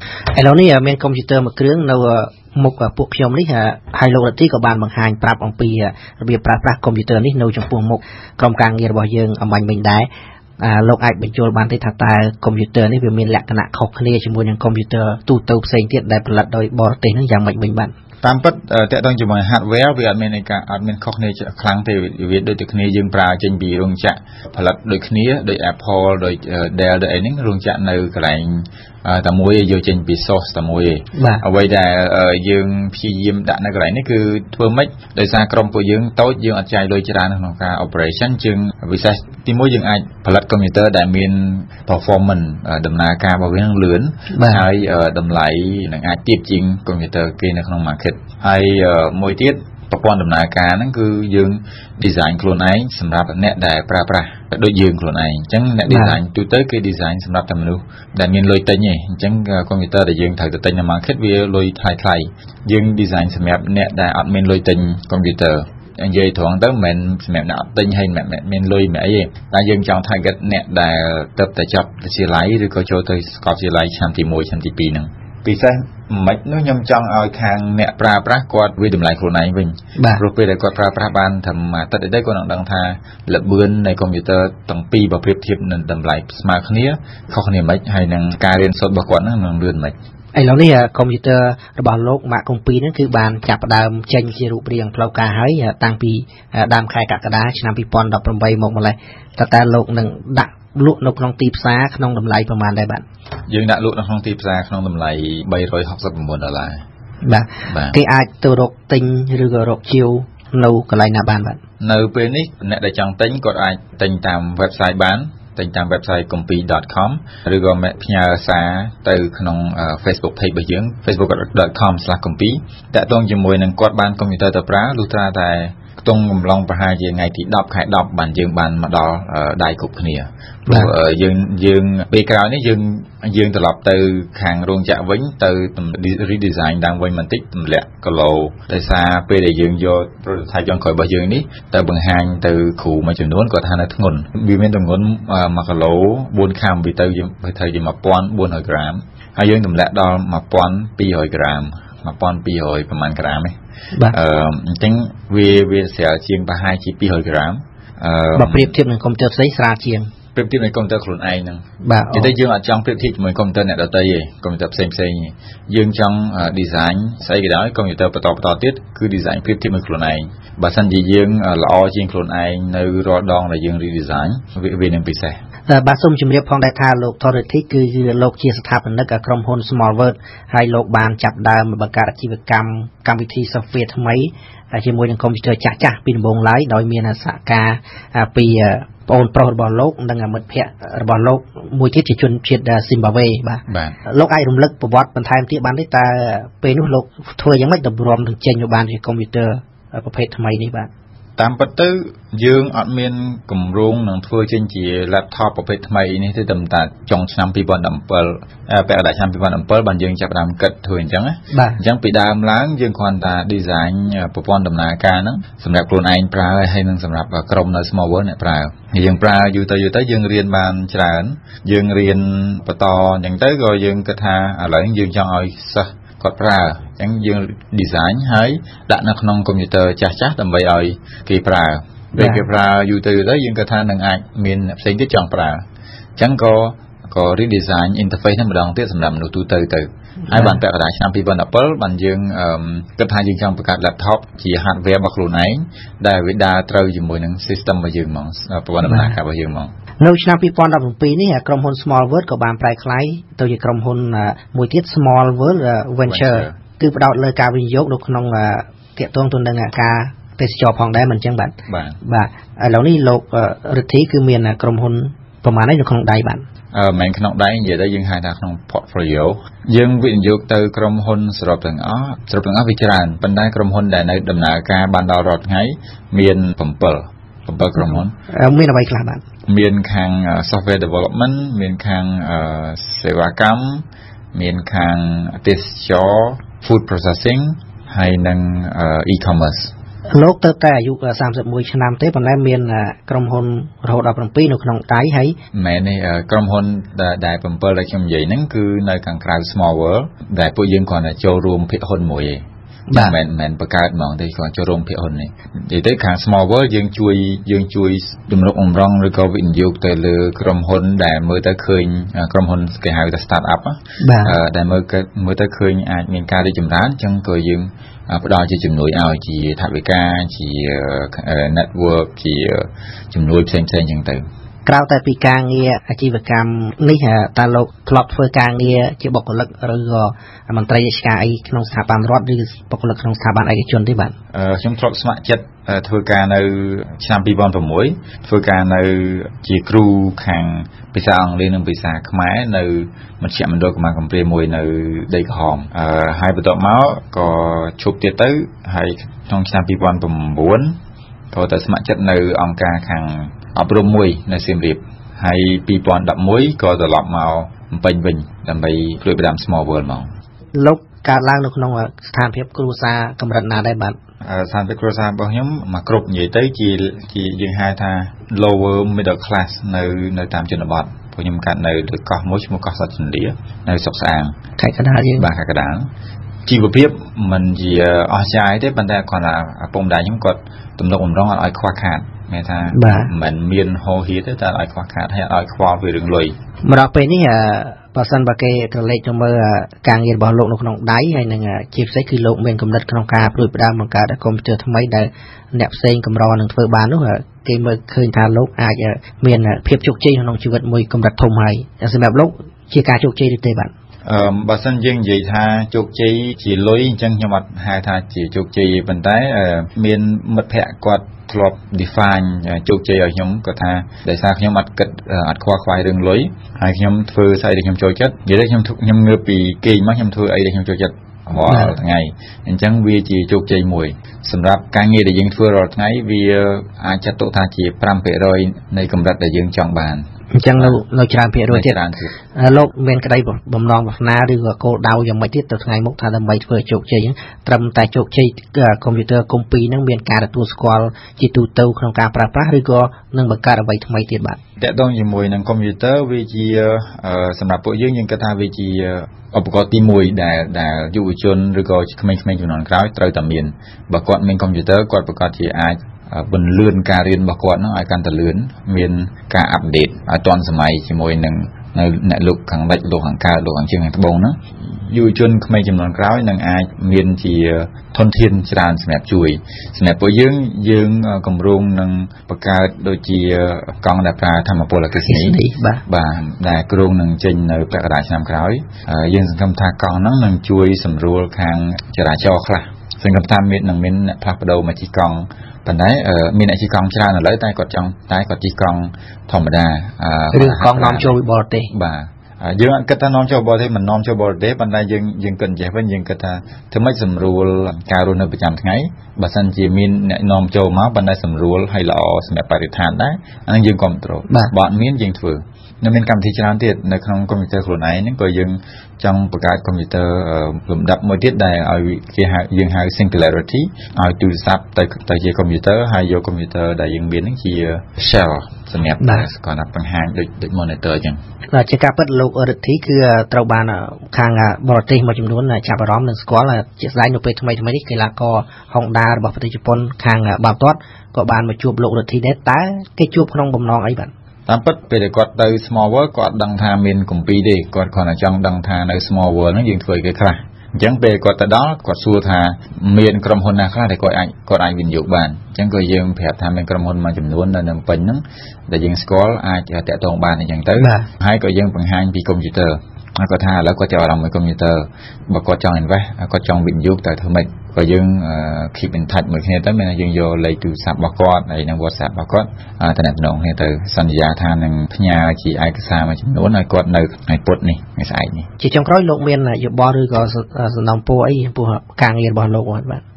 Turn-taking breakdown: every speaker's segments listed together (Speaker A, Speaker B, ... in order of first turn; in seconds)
Speaker A: 0.3-10.1, 10.6-17.9, 31.2-31.4, 44.3-44.6, 55.9-56.2, 80.0-80.2, 90.3-103.0, 107.2-111.6, 130.7-130.9, 158.3-160.1, 161.8-162.3, 175.7-200.9, 211.5-211.8, 232.2-232.4, 240.3-240.6, 248.8-249.1, 250.0-266.5, 277.8-279.2, 290.1-295.4, 302.9-303.1, 314.0-314.4, 324.7-334.1, 360.5-364.0, 374.6-375.3, 382.7-383.1, 386.6-403.7, 421.5-421.7, 430.4-431.8, 432.4-444.4, 475.1-475.8, 490.3-491.7, 519.0-519.3, 521.5-534.1, 550.8-551.1, 568.6-573.0
Speaker B: 18.2-90.0, 103.5-106.8, 107.7-108.0, 111.8-153.5, 154.1-158.7, 160.3-175.3, 193.7-194.0, 201.4-235.6, 236.2-249.7, 256.1-256.6, 261.7-262.0, 266.7-278.1, 279.5-289.7, 295.5-302.4, 302.9-324.2, 334.3-350.7, 351.3-360.1, 364.2-374.3, 375.2-375.9, 376.5-386.4, 404.1-430.0, 430.6-430.8, 431.5-432.1, 444.6-491.2, 491.7-521.2, 534.5-568.5